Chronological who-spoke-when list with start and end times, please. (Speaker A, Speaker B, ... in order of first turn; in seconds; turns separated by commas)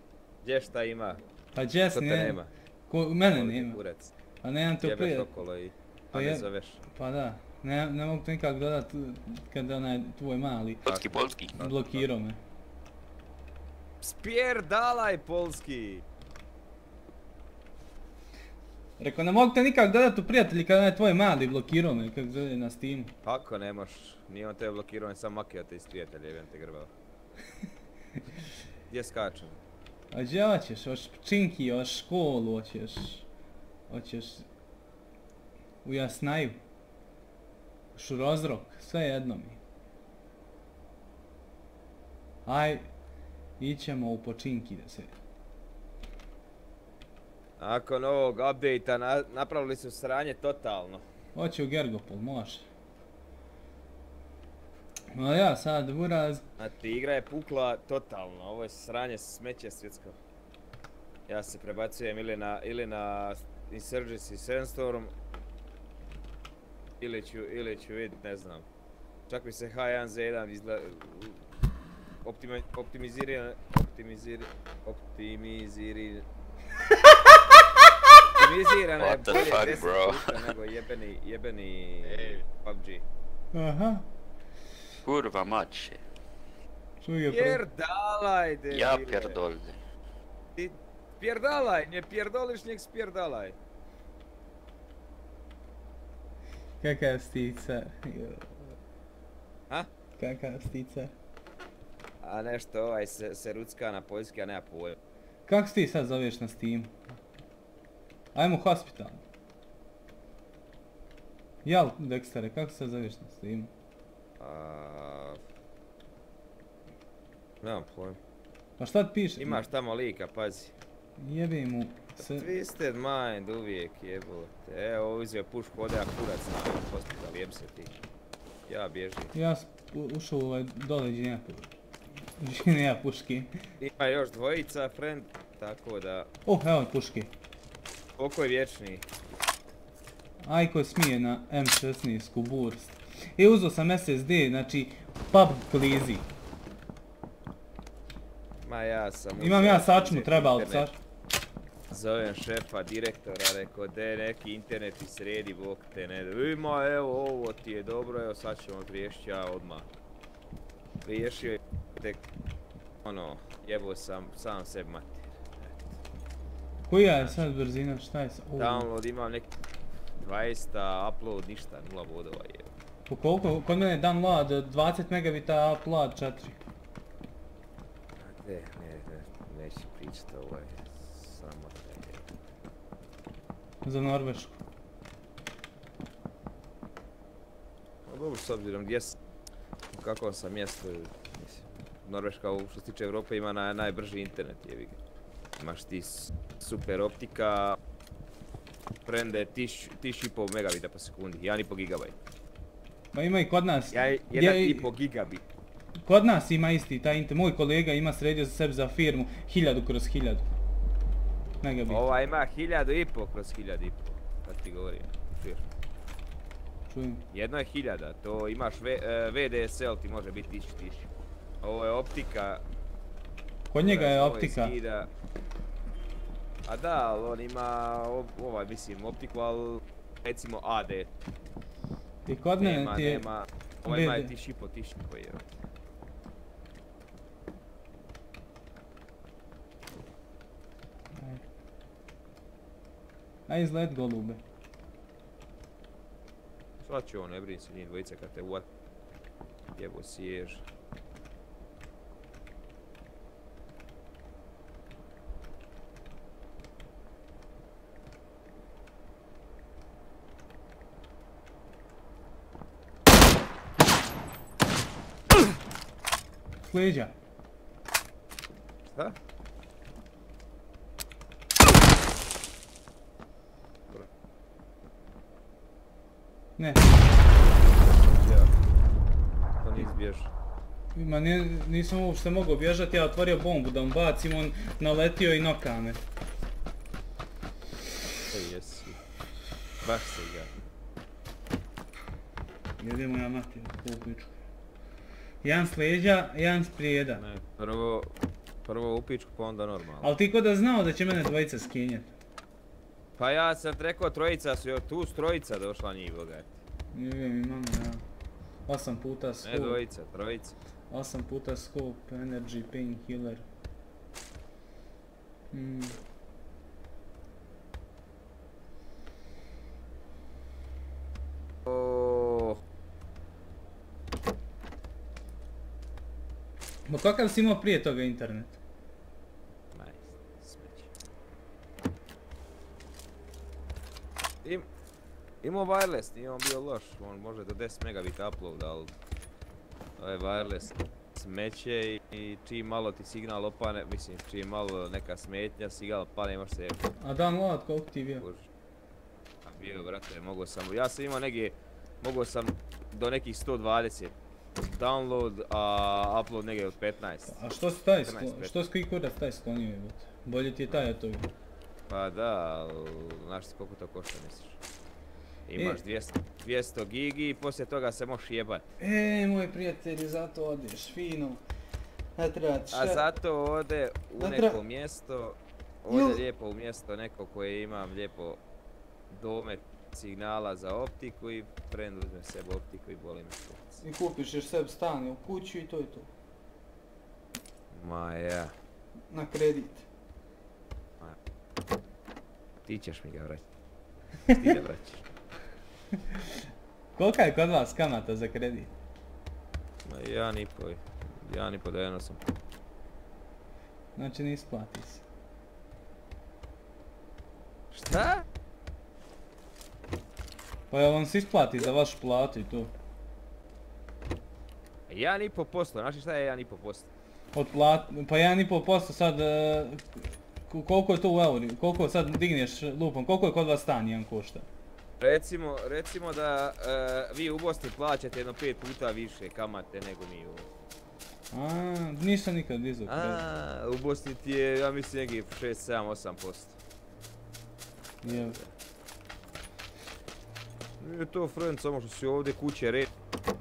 Speaker A: 0.4-1.2, Speaker B: 1.5-3.8, Speaker A: 1.9-2.5, Speaker A: 3.2-4.1, Speaker B: 4.4-5.3, Speaker A: 4.8-6.8, Speaker B: 6.1-10.8, Speaker C: 10.8-11.6, Speaker A: 10.8-12.1, Speaker B: 11.6-12.4, Speaker A: 14.0-16.0, Speaker B: 19.0-23.1, Speaker A: 23.2-26.9, Speaker A: 28.9-29.6, Speaker B: 30.1-33.3, Speaker B: 33.9-34.5, Speaker B: 35.8-36.6, Speaker B: 37.9-39.6, Speaker B: 42.5-42.9, Speaker B: 43.6-45.1, Speaker A: 47.6-51.0, Speaker B: 51.3-52.6, Speaker B: 55.1-56.4, Speaker A: 56.6-60.1, Speaker A: 61.3-65.1, Speaker A: 67.0-68.6, Speaker A: 69.3-71.4, Speaker A: 72.2-76.2, Speaker A: 78.3-83.0, Speaker C: 79.0-80.5, Speaker C: 82.0-82.4, Speaker B: 83.5-84.0, Speaker C: 85.0-86.0, Speaker B: 87.0-87.6, Speaker A: 87.3-89.4, Speaker C: 88.7-89.8, Speaker A: 90.5-93.6, Speaker B: 96.8-98.7, Speaker B: 100.2-101.1, Speaker A: 102.2-105.0, Speaker B: 105.5-107.2, Speaker B: 108.3-109.2, Speaker B: 111.6-113.7, Speaker A: 114.4-115.4, Speaker A: 117.6-118.2, Speaker B: 118.8-119.7, Speaker A: 119.4-120.7, Speaker B: 121.2-122.5, Speaker A: 122.2-127.9, Speaker A: 128.7-129.3, Speaker B: 129.3-131.7, Speaker B: 132.4-133.5, Speaker A: 133.8-136.3, Speaker B: 136.4-137.3, Speaker A: 138.2-139.0, Speaker B: 140.4-146.3, Speaker A: 148.6-150.9, Speaker B: 149.4-150.9, Speaker A: 151.9-159.9, Speaker A: 161.0-162.2, Speaker A: 163.0-165.8, Speaker B: 166.9-168.9, Speaker A: 168.6-169.5, Speaker A: 170.2-172.7, Speaker B: 173.1-176.6, Speaker A: 178.2-182.3, Speaker B: 183.8-184.6, Speaker A: 188.1-189.2, Speaker A: 189.9-195.0, Speaker A: 195.6-197.8, Speaker A: 199.1-202.2, Speaker B: 203.1-204.9, Speaker A: 203.9-205.4, Speaker B: 206.0-210.6, Speaker B: 211.6-212.0, Speaker A: 211.9-215.7, Speaker B: 216.9-217.2, Speaker A: 217.3-221.1, Speaker A: 221.6-222.6, Speaker B: 223.7-224.7, Speaker A: 223.8-225.1, Speaker A: 226.6-231.1, Speaker B: 232.2-233.2, Speaker A: 232.6-235.5, Speaker B: 233.8-234.3, Speaker B: 241.1-241.4, Speaker B: 243.5-244.4, Speaker A: 246.8-248.7, Speaker A: 249.8-250.6, Speaker B: 266.6-267.1, Speaker B: 276.6-276.9, Speaker A: 277.6-278.5, Speaker A: 279.6-280.3, Speaker B: 280.9-286.0, Speaker A: 288.3-289.0, Speaker A: 289.8-290.5, Speaker B: 292.8-294.3, Speaker B: 295.4-297.2, Speaker A: 297.1-298.1, Speaker A: 298.6-300.1, Speaker B: 300.0-302.1, Speaker A: 303.2-306.5, Speaker B: 306.9-308.0, Speaker B: 308.7-309.8, Speaker A: 309.4-310.5, Speaker B: 310.9-313.4, Speaker B: 315.5-316.0, Speaker A: 321.6-322.6, Speaker B: 326.9-328.6, Speaker A: 329.7-330.9, Speaker A: 335.4-338.9, Speaker A: 340.0-346.8, Speaker B: 347.0-348.2, Speaker A: 348.2-348.5, Speaker A: 349.4-357.4, Speaker B: 357.3-361.3, Speaker A: 358.0-358.5, Speaker A: 361.9-364.6, Speaker A: 365.5-368.7, Speaker B: 368.8-371.4, Speaker B: 372.1-373.0, Speaker A: 372.7-378.4, Speaker B: 374.2-374.6, Speaker B: 375.9-376.2, Speaker A: 379.1-383.8, Speaker B: 383.8-386.1, Speaker A: 387.7-388.5, Speaker B: 389.1-389.9, Speaker A: 392.6-393.4, Speaker A: 394.2-395.0, Speaker B: 396.9-398.7, Speaker A: 399.8-402.2, Speaker B: 403.9-405.0, Speaker A: 407.7-408.2, Speaker B: 410.7-412.7, Speaker A: 414.9-416.9, Speaker B: 417.3-424.5, Speaker A: 425.0-430.5, Speaker B: 431.3-433.2, Speaker A: 432.9-436.6, Speaker B: 438.0-438.4, Speaker A: 438.0-438.5, Speaker A: 440.8-442.9